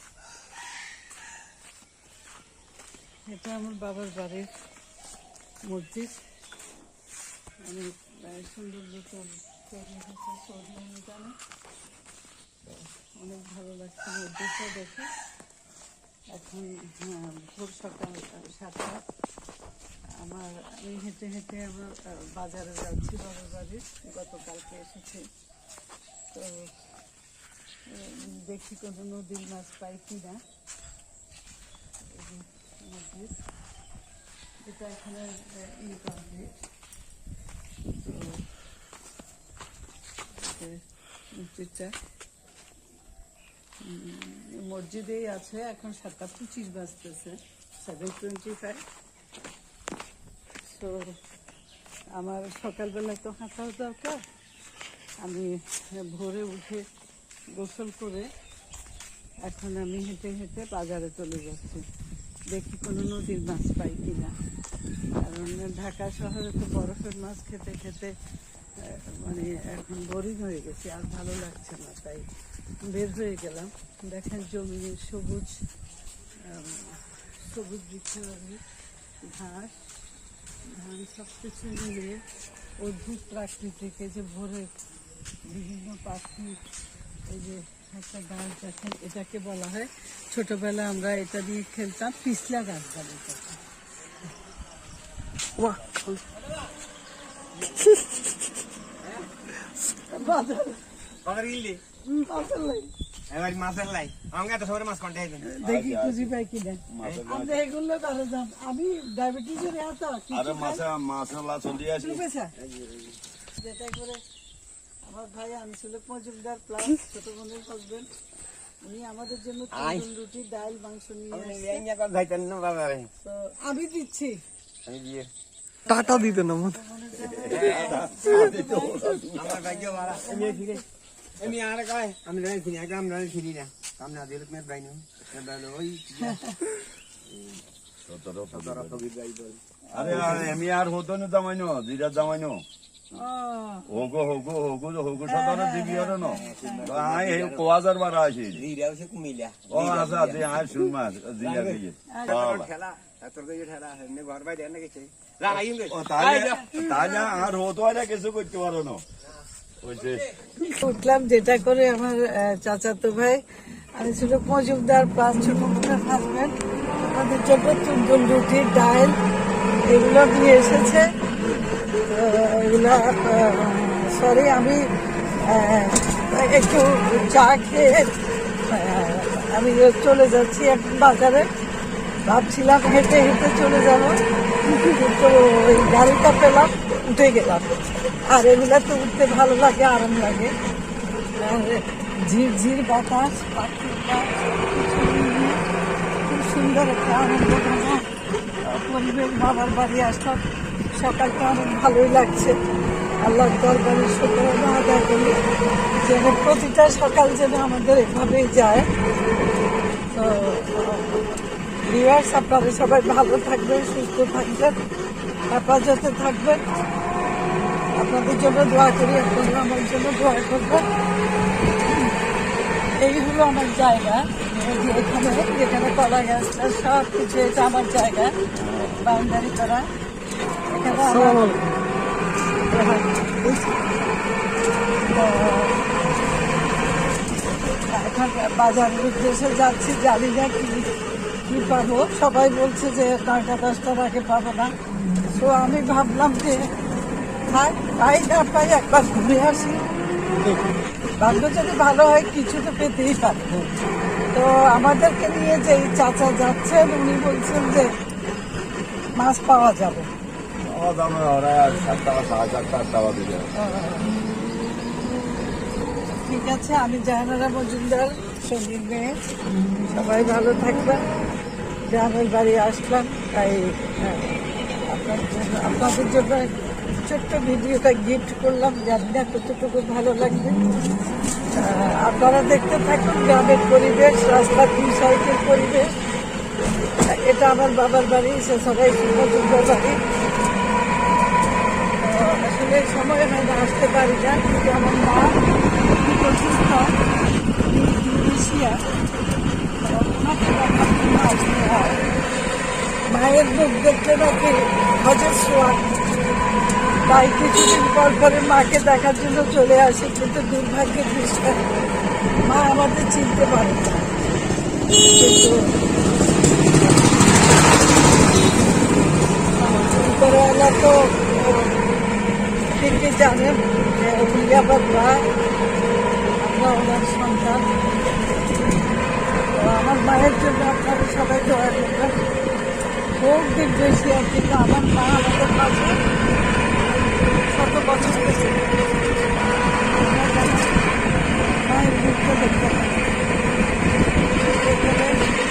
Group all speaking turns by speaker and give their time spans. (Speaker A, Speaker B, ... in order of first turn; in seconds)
Speaker A: 3.2-4.5, 5.6-6.2, 7.6-11.4, 13.0-15.1, 16.3-19.0, 20.1-25.3, 26.3-26.7, 27.9-30.4, 32.1-33.4, 34.6-36.6, 38.0-38.4, 40.4-40.8, 41.3-41.9, 43.8-48.8, 50.6-51.2, 52.1-54.2, 55.2-56.8, 57.5-58.3, 59.4-61.8, 62.5-64.3, 65.2-68.1, 68.8-72.3, 72.9-75.6, 76.4-78.6, 79.2-79.7, 80.7-82.2, 82.8-84.7, 85.4-86.6, 87.3-93.5, 100.1-100.8, 102.0-102.9, 105.4-110.8, 112.0-112.5, 113.5-114.2, 115.0-118.1, 118.8-121.8, 123.2-124.4, 126.7-129.2, 129.8-130.8, 136.2-136.5, 143.1-143.9, 145.3-146.8, 160.6-163.4, 163.9-169.2, 169.8-171.1, 172.1-174.8, 175.4-178.1, 178.7-181.5, 182.2-190.5, 191.4-195.6, 196.2-198.1, 198.6-200.4, 200.9-202.6, 203.2-205.4, 206.0-208.9, 210.1-211.3, 211.8-214.8, 215.5-216.6, 217.9-220.8, 222.9-228.3, 229.0-229.9, 230.7-231.5, 235.1-235.9, 237.9-240.9, 241.5-244.7, 245.3-246.7, 247.5-249.8, 251.2-253.7, 254.3-257.9, 259.1-260.1, 263.5-264.2, 266.1-269.1, 269.8-271.0, 271.9-274.3, 274.9-276.5, 277.0-280.6, 281.5-285.9, 287.1-290.0, 291.9-296.9, 297.6-298.8, 299.8-302.0, 303.1-306.0, 307.0-311.7, 312.4-314.1, 314.9-315.9, 316.6-317.4, 319.6-321.8, 322.7-325.3, 326.4-327.7, 329.5-332.2, 333.2-336.0, 337.5-338.6, 340.0-340.8, 341.6-343.1, 344.4-345.2
Speaker B: 95.6-96.2, 125.9-126.8, 230.9-231.7, 232.7-233.0
Speaker C: 101.2-101.8, 103.3-105.5, 112.6-113.2, 119.7-120.0, 121.3-123.1, 124.8-125.3, 127.5-127.9, 129.3-130.8, 131.4-136.4, 138.5-140.5, 146.4-147.7, 148.5-156.8
Speaker D: 105.6-106.3, 106.9-107.6, 110.3-112.2, 127.5-129.6, 138.0-139.0, 139.9-142.6, 143.9-148.7, 149.7-152.7, 155.8-159.0, 159.8-160.3, 228.6-229.0, 260.6-263.5